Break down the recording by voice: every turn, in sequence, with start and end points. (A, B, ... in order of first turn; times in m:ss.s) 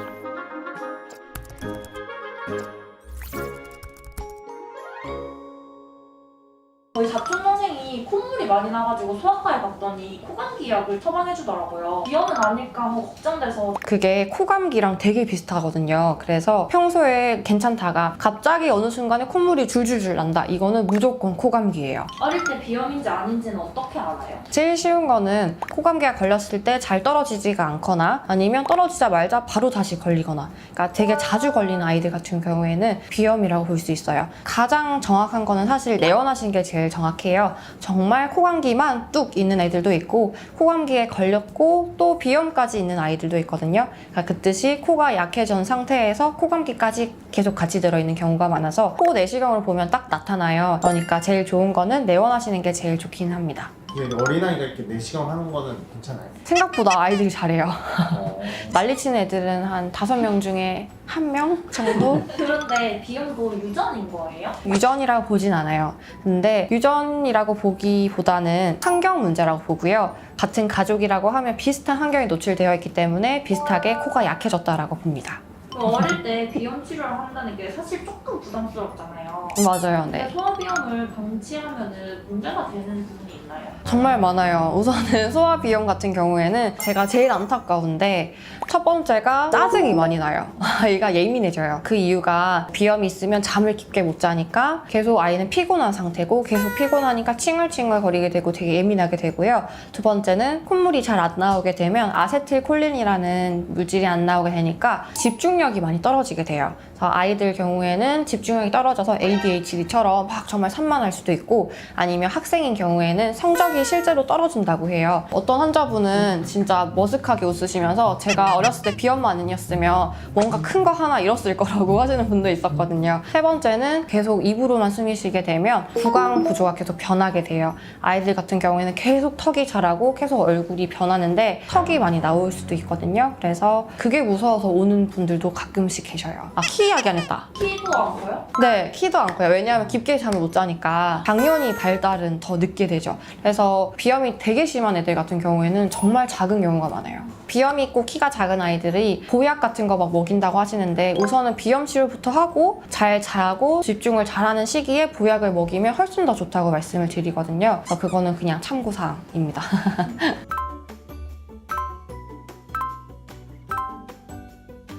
0:07.0-0:13.8 A
0:13.8-0:22.1 B
0:22.2-0:24.4 A
0:24.5-0:53.7 B
0:53.9-0:56.4 C
0:56.4-1:02.3 B
0:58.1-0:58.8 C
1:01.8-1:04.6 A
1:04.6-1:15.4 B
1:15.7-1:23.8 A
1:19.6-1:20.3 B
1:23.8-2:17.5 B
2:17.6-2:18.5 A
2:18.6-2:40.4 B